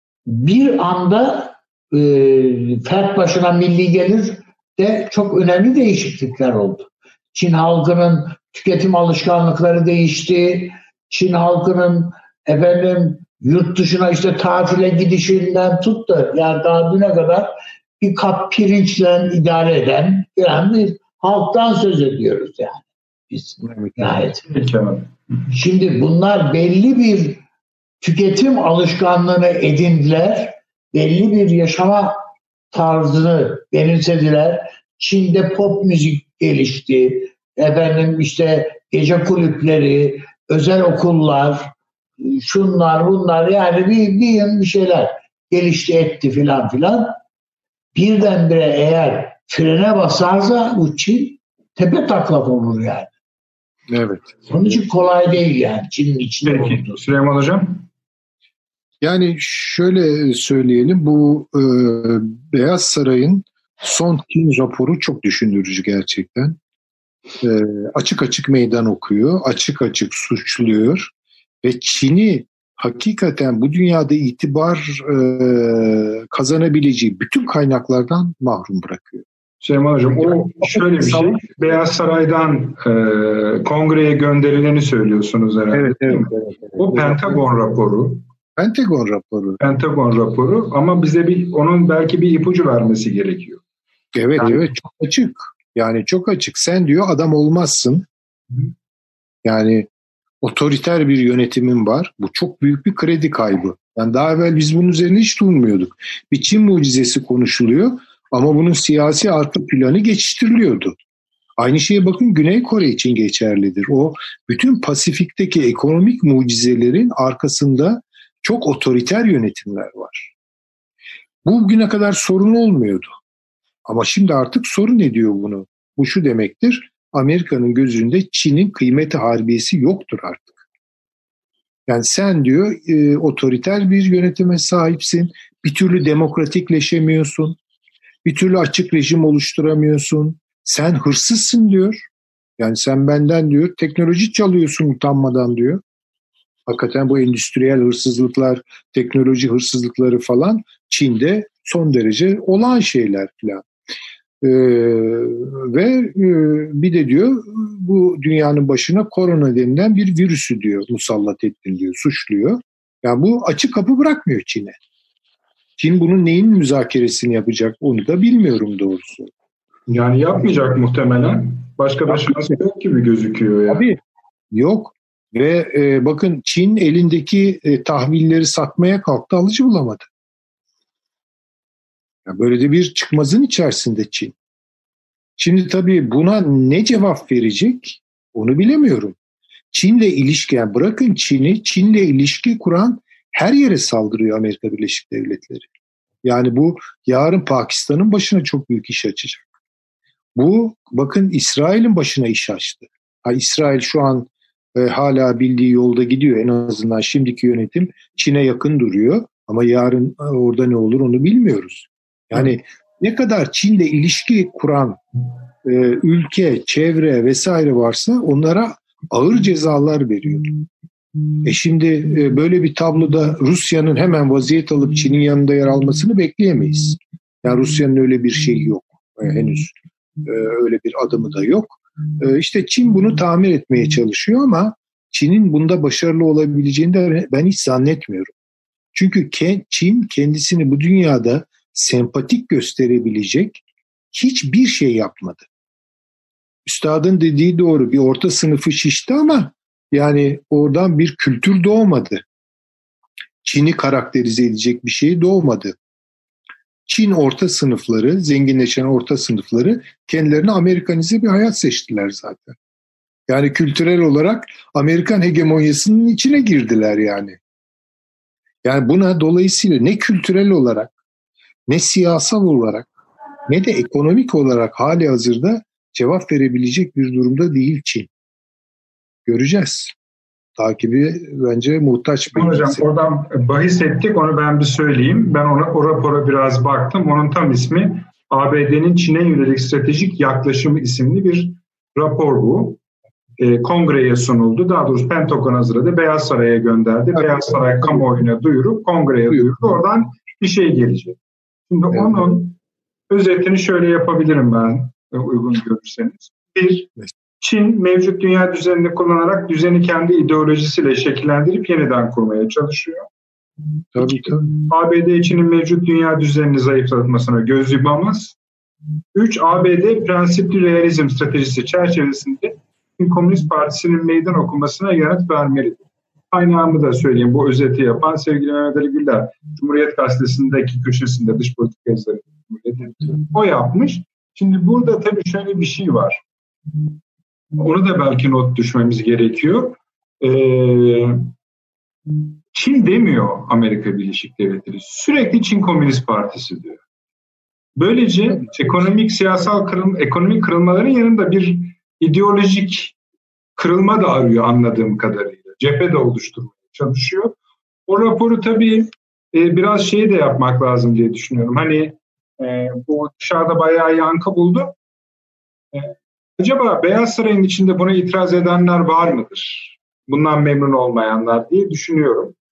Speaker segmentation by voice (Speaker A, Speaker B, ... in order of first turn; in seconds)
Speaker A: 0.3-24.4, 25.5-27.4, 28.0-47.1, 47.9-53.1, 54.5-56.9
Speaker B: 23.6-24.0, 53.9-54.6, 59.0-66.6, 67.4-71.1, 71.6-79.2, 80.2-81.5, 85.7-87.4, 88.6-89.6, 94.1-98.0, 99.4-99.9, 100.4-110.9, 111.6-120.3, 121.4-123.2, 123.8-130.6, 131.9-137.6, 138.2-145.8, 146.7-153.7, 154.4-164.8, 165.8-169.3, 172.1-172.5, 173.7-174.0, 174.5-180.1, 182.2-184.3, 185.4-189.2, 189.7-195.7, 196.2-199.5, 200.3-215.0, 215.6-220.5, 221.4-238.3, 238.9-245.4, 246.7-252.2, 253.4-255.7, 256.9-262.5, 263.3-267.4, 268.6-270.9, 271.7-272.9, 273.5-278.1, 279.2-279.9, 280.6-282.8, 313.9-314.5
Speaker C: 24.4-25.4, 56.4-57.9, 79.6-88.2, 89.6-93.6, 94.4-94.6, 169.9-173.8, 282.3-292.8, 293.4-301.2, 301.7-302.6, 303.1-313.1, 314.7-318.4, 319.1-336.2, 337.6-341.3, 342.5-346.8, 347.8-352.9, 353.6-364.7, 365.7-372.3